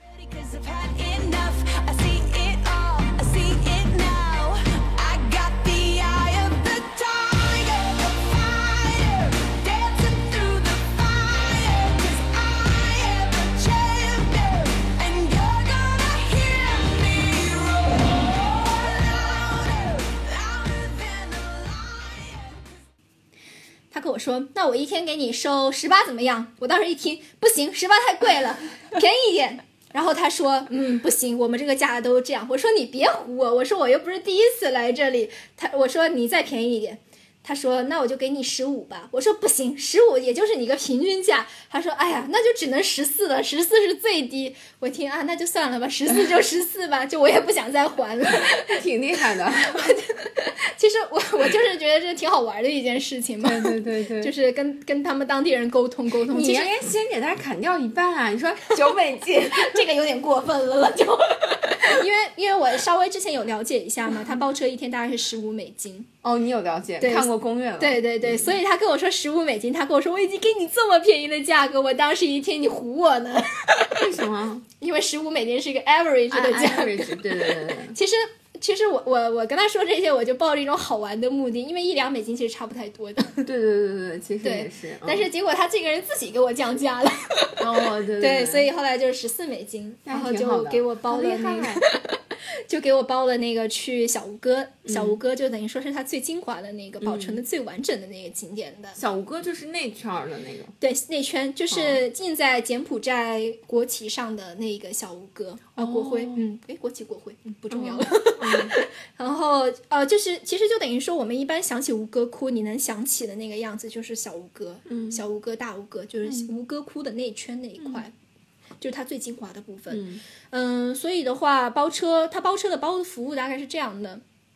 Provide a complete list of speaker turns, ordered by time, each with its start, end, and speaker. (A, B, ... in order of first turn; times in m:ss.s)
0:00.2-0:22.5 A
0:23.9-0:48.8 B
0:48.4-0:50.0 C
0:49.4-0:56.7 B
0:53.4-0:54.3 C
0:56.3-0:59.9 C
0:59.5-1:06.1 B
1:06.2-1:08.6 C
1:07.0-1:14.0 B
1:13.9-1:14.6 C
1:14.8-1:23.5 B
1:16.3-1:18.0 C
1:23.4-1:25.3 C
1:24.4-1:39.0 B
1:27.6-1:28.7 C
1:30.0-1:31.8 C
1:34.8-1:35.2 C
1:37.0-1:37.4 C
1:39.0-1:40.7 C
1:40.8-1:58.1 B
1:41.7-1:42.0 C
1:45.8-1:46.4 C
1:47.7-1:48.8 C
1:54.9-1:55.2 C
1:56.2-1:56.5 C
1:58.8-2:04.2 B
1:59.9-2:00.2 C